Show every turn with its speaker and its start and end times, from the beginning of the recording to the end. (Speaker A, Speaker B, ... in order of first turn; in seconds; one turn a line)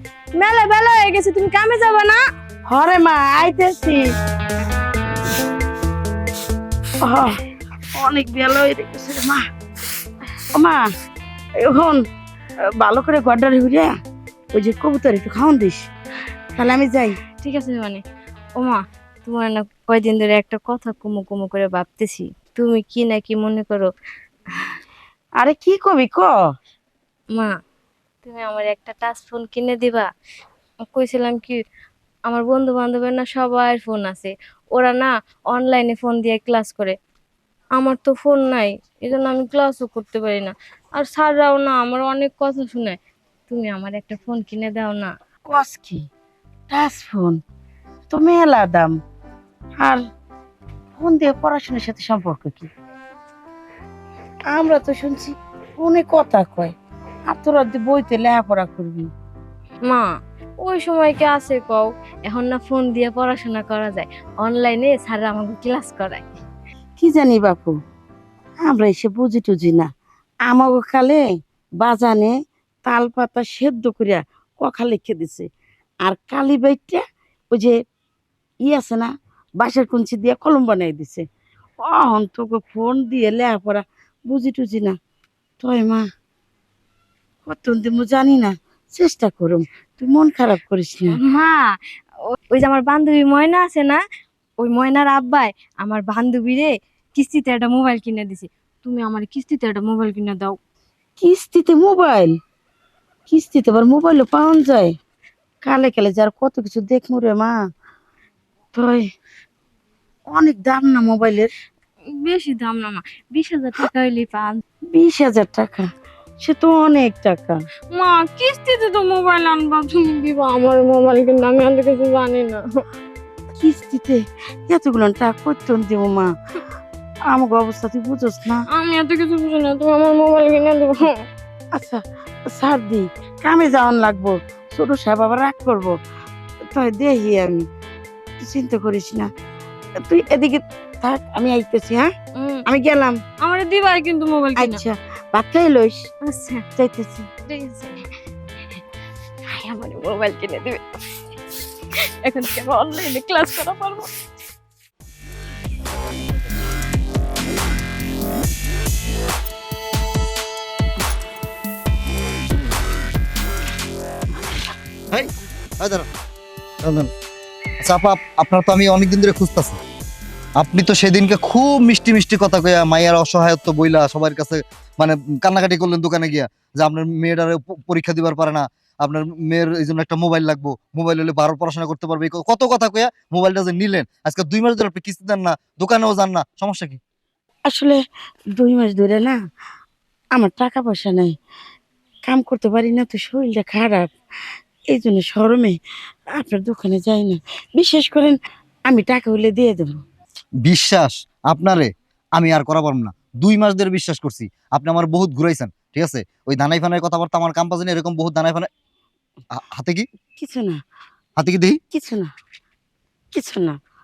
Speaker A: 0.3-2.2
Speaker B: 2.7-4.0
Speaker B: 7.0-7.4
Speaker B: 8.0-9.4
Speaker B: 10.5-10.9
Speaker B: 11.6-12.0
Speaker B: 12.8-13.9
Speaker B: 14.5-15.9
Speaker B: 16.6-17.2
Speaker A: 17.4-18.0
Speaker A: 18.6-23.9
Speaker B: 25.4-26.3
Speaker A: 28.2-30.1
Speaker A: 30.9-31.6
Speaker A: 32.3-36.9
Speaker A: 37.8-43.0
Speaker A: 43.5-45.1
Speaker B: 45.5-46.0
Speaker B: 46.7-47.4
Speaker B: 48.1-48.9
Speaker B: 51.0-52.7
Speaker B: 54.5-56.7
Speaker B: 57.3-59.1
Speaker A: 60.6-66.3
Speaker B: 67.0-67.8
Speaker B: 68.6-69.9
Speaker B: 70.5-71.2
Speaker B: 71.8-72.3
Speaker B: 72.8-75.5
Speaker B: 76.0-77.8
Speaker B: 78.6-81.2
Speaker B: 81.8-85.0
Speaker B: 85.6-86.0
Speaker B: 87.5-91.2
Speaker A: 91.1-91.6
Speaker A: 92.5-94.0
Speaker A: 94.6-100.6
Speaker B: 101.2-102.3
Speaker B: 103.3-104.9
Speaker B: 105.6-107.5
Speaker B: 108.8-109.1
Speaker B: 110.3-111.5
Speaker A: 112.2-114.6
Speaker B: 114.9-115.9
Speaker B: 116.4-117.6
Speaker A: 117.9-122.6
Speaker B: 123.6-126.3
Speaker B: 127.3-128.6
Speaker A: 128.7-131.0
Speaker B: 131.8-135.9
Speaker B: 136.7-137.7
Speaker B: 138.4-139.3
Speaker B: 140.0-142.1
Speaker A: 142.4-142.6
Speaker B: 142.7-143.2
Speaker A: 143.4-144.8
Speaker B: 144.6-146.1
Speaker A: 146.2-146.6
Speaker B: 146.8-147.3
Speaker A: 147.4-148.0
Speaker A: 149.5-150.8
Speaker A: 152.2-154.1
Speaker C: 165.1-166.1
Speaker C: 166.8-167.1
Speaker C: 167.8-169.8
Speaker C: 170.6-187.0
Speaker B: 187.7-188.0
Speaker B: 188.6-189.4
Speaker B: 190.3-191.4
Speaker B: 192.3-194.1
Speaker B: 194.9-195.8
Speaker B: 196.3-198.4
Speaker B: 198.9-200.0
Speaker C: 200.6-208.7
Speaker C: 209.5-210.1
Speaker B: 210.4-210.8
Speaker C: 211.4-211.8
Speaker B: 211.9-212.3
Speaker B: 213.3-213.8